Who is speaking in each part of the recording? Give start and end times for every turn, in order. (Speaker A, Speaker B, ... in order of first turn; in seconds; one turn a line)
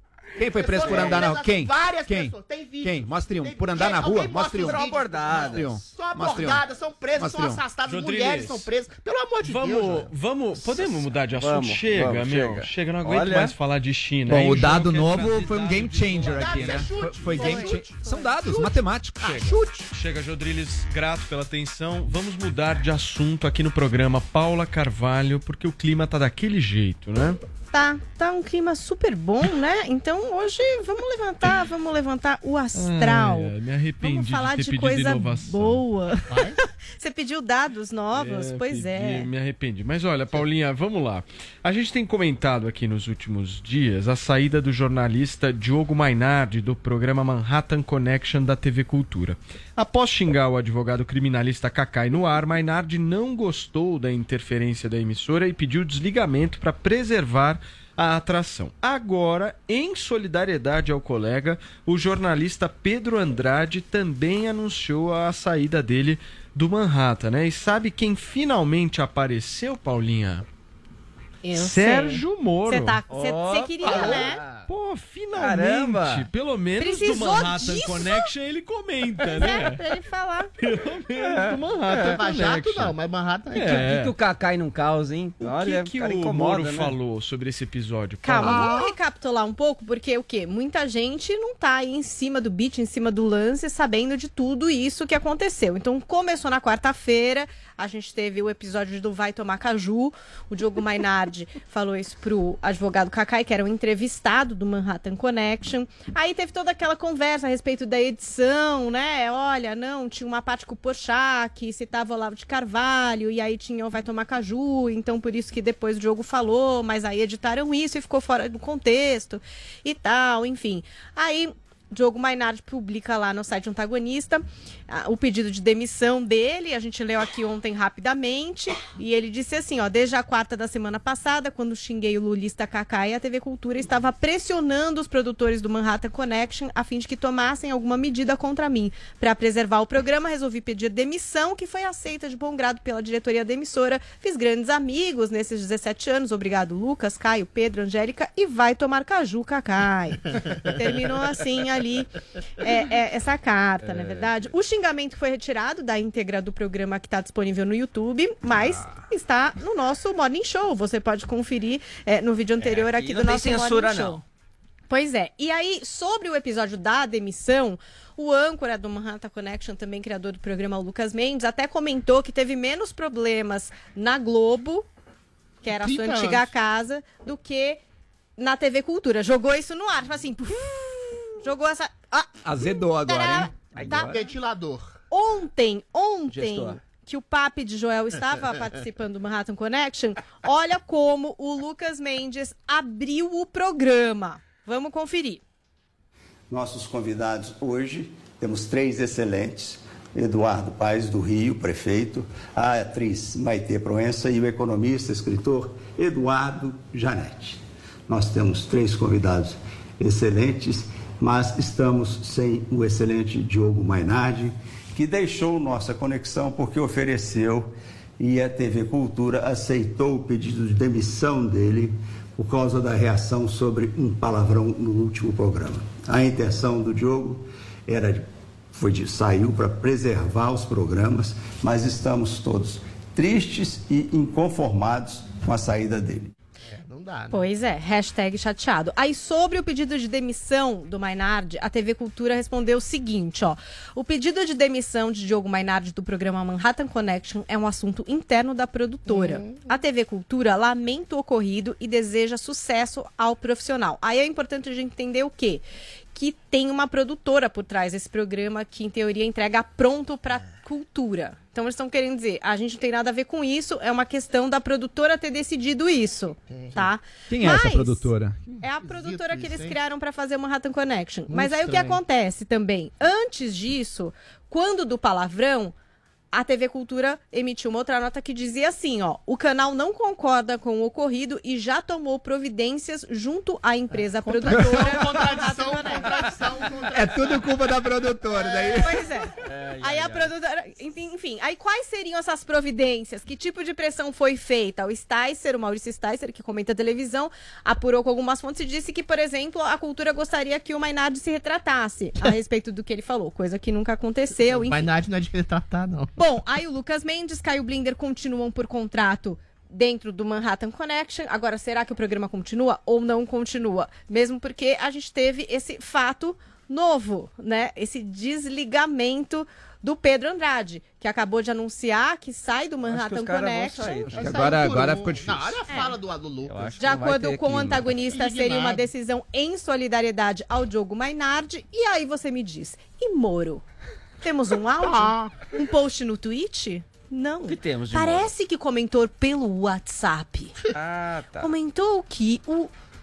Speaker A: 0.4-4.8
Speaker B: 0.5-10.1
Speaker C: 0.8-1.3
Speaker C: 4.6-5.9
Speaker A: 5.5-6.6
Speaker A: 7.2-7.6
Speaker D: 7.9-8.7
Speaker D: 9.4-17.7
Speaker C: 10.6-13.5
Speaker A: 14.3-19.4
Speaker B: 16.3-19.9
Speaker D: 19.2-27.4
Speaker E: 27.7-39.3
Speaker D: 32.8-35.8
Speaker B: 36.3-36.6
Speaker D: 38.1-70.5
Speaker E: 71.4-74.4
Speaker D: 71.5-73.0
Speaker C: 73.1-74.7
Speaker B: 73.8-74.3
Speaker D: 74.7-79.8
Speaker C: 75.3-76.3
Speaker E: 76.8-78.3
Speaker E: 79.3-80.5
Speaker D: 80.6-82.9
Speaker C: 81.3-82.4
Speaker B: 82.1-83.8
Speaker D: 83.5-84.2
Speaker C: 83.6-87.0
Speaker D: 85.4-88.7
Speaker E: 88.2-152.1
Speaker B: 88.4-88.9
Speaker E: 152.6-164.2
Speaker C: 153.8-154.5
Speaker C: 162.6-164.2
Speaker E: 164.9-174.8
Speaker E: 175.6-177.8
Speaker B: 175.7-176.5
Speaker E: 178.4-182.3
Speaker A: 182.4-183.5
Speaker E: 183.1-184.2
Speaker C: 183.7-184.2
Speaker B: 183.8-185.0
Speaker E: 185.1-195.4
Speaker C: 186.3-186.8
Speaker F: 196.5-236.3
Speaker B: 236.7-237.5
Speaker E: 237.3-268.1
Speaker B: 249.1-249.7
Speaker B: 266.5-266.9
Speaker A: 267.3-268.4
Speaker B: 268.5-269.8
Speaker E: 268.6-275.7
Speaker B: 271.3-272.0
Speaker E: 276.3-286.4
Speaker B: 283.9-287.5
Speaker A: 286.9-289.0
Speaker B: 288.4-288.8
Speaker E: 288.8-304.9
Speaker C: 289.3-290.3
Speaker B: 304.5-306.1
Speaker E: 306.2-324.2
Speaker C: 322.8-324.7
Speaker B: 324.1-326.7
Speaker A: 324.1-325.6
Speaker E: 325.7-325.9
Speaker C: 326.4-327.9
Speaker E: 326.8-333.6
Speaker B: 327.9-328.9
Speaker E: 334.2-340.5
Speaker B: 334.8-335.5
Speaker C: 337.4-338.3
Speaker C: 340.7-341.5
Speaker E: 341.4-342.7